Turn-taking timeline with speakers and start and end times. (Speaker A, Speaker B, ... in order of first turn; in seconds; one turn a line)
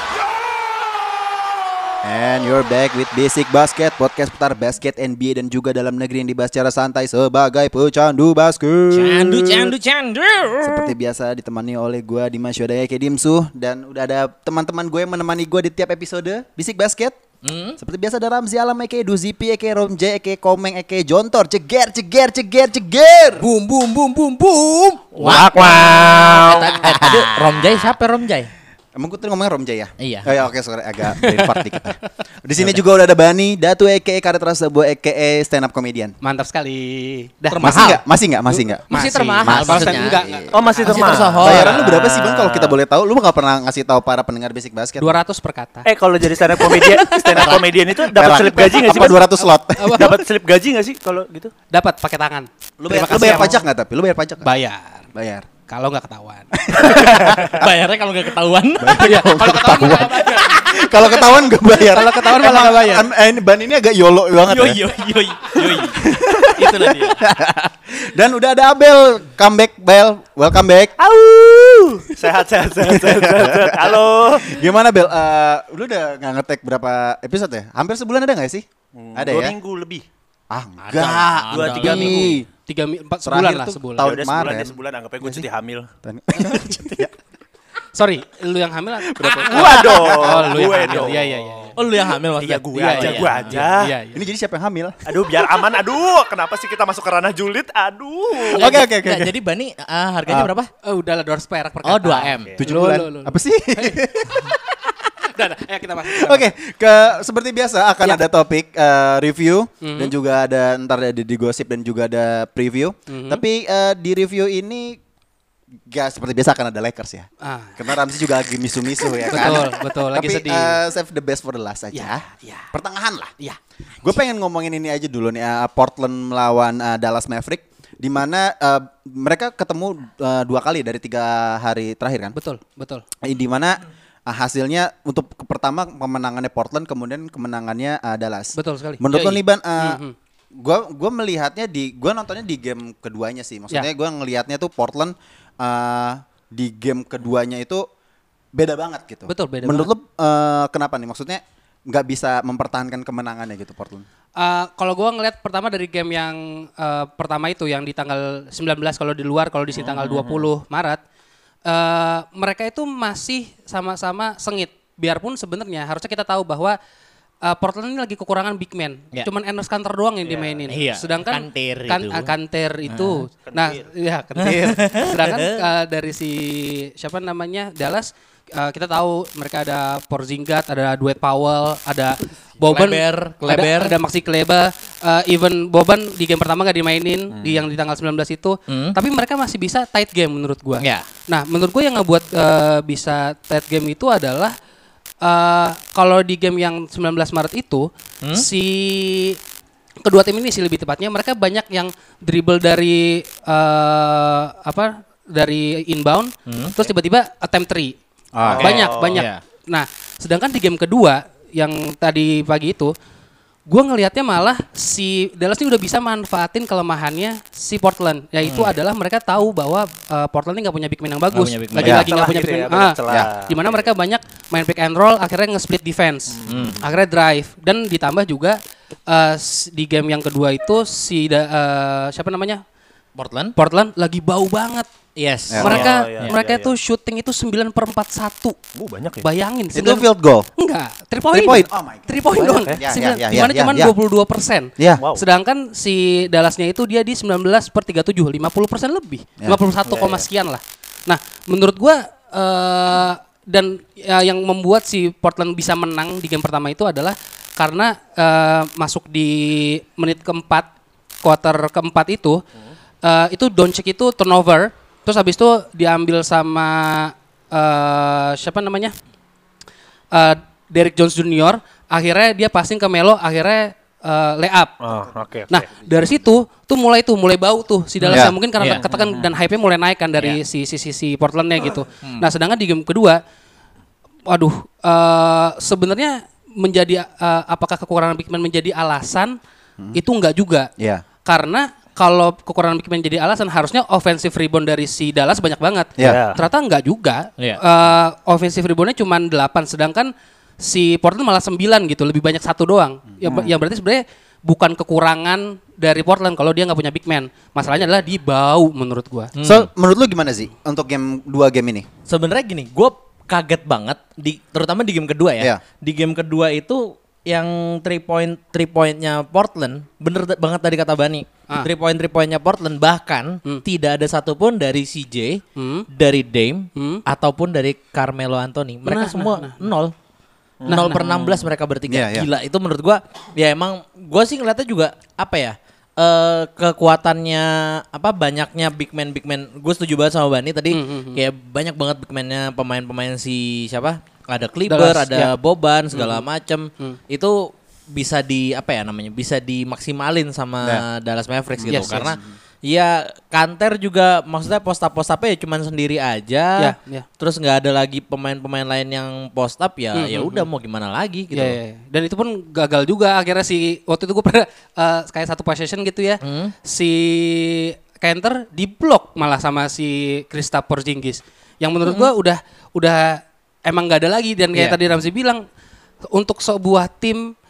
Speaker A: 2.0-9.8
Speaker B: 8.9-10.9
Speaker A: 10.6-17.2
Speaker B: 17.4-17.8
Speaker A: 17.8-23.5
Speaker B: 23.4-28.5
Speaker A: 25.2-27.4
Speaker A: 28.9-36.2
Speaker B: 30.0-30.3
Speaker C: 36.2-37.8
Speaker B: 37.5-38.0
Speaker A: 37.6-38.9
Speaker C: 38.9-41.6
Speaker B: 38.9-41.8
Speaker A: 39.4-45.1
Speaker D: 40.5-42.7
Speaker C: 45.0-45.9
Speaker D: 45.9-49.2
Speaker C: 46.4-47.6
Speaker A: 47.3-50.2
Speaker C: 48.9-50.2
Speaker D: 50.0-51.5
Speaker C: 51.7-53.6
Speaker A: 52.8-54.5
Speaker C: 54.4-55.1
Speaker A: 55.1-55.5
Speaker C: 55.7-57.1
Speaker A: 56.5-57.7
Speaker B: 56.8-59.1
Speaker A: 58.8-64.8
Speaker C: 59.0-63.1
Speaker B: 64.5-67.2
Speaker A: 65.6-70.9
Speaker D: 71.0-74.6
Speaker A: 72.8-78.6
Speaker D: 78.9-80.0
Speaker A: 79.2-79.5
Speaker A: 80.5-82.5
Speaker B: 80.8-82.2
Speaker D: 81.5-82.4
Speaker C: 81.8-84.2
Speaker A: 83.2-85.5
Speaker D: 84.0-85.9
Speaker A: 86.0-87.1
Speaker C: 87.9-91.8
Speaker A: 89.0-90.7
Speaker D: 89.3-91.8
Speaker B: 91.8-93.6
Speaker D: 92.4-93.9
Speaker C: 92.7-94.2
Speaker A: 94.1-95.5
Speaker D: 95.1-98.7
Speaker A: 98.4-99.3
Speaker B: 98.5-100.7
Speaker A: 100.3-100.5
Speaker C: 100.8-104.0
Speaker B: 101.8-102.6
Speaker A: 102.6-105.0
Speaker C: 105.3-106.5
Speaker A: 106.1-115.0
Speaker C: 109.8-110.1
Speaker C: 113.1-113.4
Speaker A: 115.9-123.3
Speaker C: 117.4-117.8
Speaker C: 119.3-120.8
Speaker C: 121.9-122.7
Speaker A: 124.0-132.3
Speaker C: 132.3-133.0
Speaker A: 133.2-140.0
Speaker C: 138.5-139.2
Speaker B: 139.1-139.4
Speaker C: 139.8-140.1
Speaker A: 140.5-147.8
Speaker A: 148.5-154.0
Speaker C: 149.3-149.9
Speaker C: 154.4-161.0
Speaker D: 159.8-160.4
Speaker C: 161.7-166.8
Speaker C: 167.4-194.5
Speaker D: 170.2-170.6
Speaker B: 170.7-172.3
Speaker B: 172.9-173.2
Speaker D: 173.4-173.9
Speaker B: 174.4-175.6
Speaker A: 174.5-174.8
Speaker B: 182.7-184.0
Speaker D: 187.3-187.6
Speaker B: 188.7-188.9
Speaker B: 190.8-191.1
Speaker C: 195.2-199.4
Speaker C: 200.0-207.9
Speaker B: 206.5-206.8
Speaker A: 208.3-208.7
Speaker D: 208.4-209.2
Speaker B: 208.5-209.4
Speaker C: 208.5-212.9
Speaker C: 213.7-232.6
Speaker B: 218.4-218.7
Speaker B: 221.3-222.1
Speaker A: 221.8-222.1
Speaker D: 222.0-223.9
Speaker D: 226.3-226.9
Speaker B: 226.5-226.8
Speaker B: 233.2-233.5
Speaker C: 233.6-234.9
Speaker B: 235.2-236.3
Speaker A: 235.5-235.9
Speaker C: 235.6-238.6
Speaker D: 235.6-236.7
Speaker D: 238.7-239.2
Speaker C: 239.2-260.7
Speaker A: 239.7-240.5
Speaker A: 241.3-243.9
Speaker D: 245.0-245.2
Speaker D: 249.8-250.2
Speaker C: 261.2-262.4
Speaker C: 263.0-268.9
Speaker C: 270.1-274.8
Speaker D: 274.8-275.7
Speaker C: 275.5-283.2
Speaker A: 275.8-276.1
Speaker B: 278.0-278.8
Speaker A: 278.1-278.4
Speaker D: 278.8-279.3
Speaker B: 282.0-282.3
Speaker C: 284.3-289.4
Speaker C: 289.9-290.7
Speaker A: 290.8-291.0
Speaker C: 291.2-309.3
Speaker A: 296.0-296.2
Speaker D: 296.0-296.4
Speaker A: 303.2-303.5
Speaker B: 309.4-309.7
Speaker A: 309.4-311.9
Speaker B: 312.1-329.9
Speaker C: 325.6-325.9
Speaker C: 326.8-327.0
Speaker C: 328.9-329.6
Speaker D: 330.6-331.5
Speaker C: 330.7-331.0
Speaker B: 330.7-361.6
Speaker A: 331.9-332.3
Speaker C: 340.7-341.2
Speaker C: 344.7-345.3
Speaker C: 345.9-346.2
Speaker A: 351.6-352.2
Speaker C: 351.7-352.1
Speaker C: 356.6-357.1
Speaker C: 360.0-360.5
Speaker C: 361.3-375.4
Speaker B: 366.2-366.5
Speaker B: 371.9-372.1
Speaker C: 376.1-377.3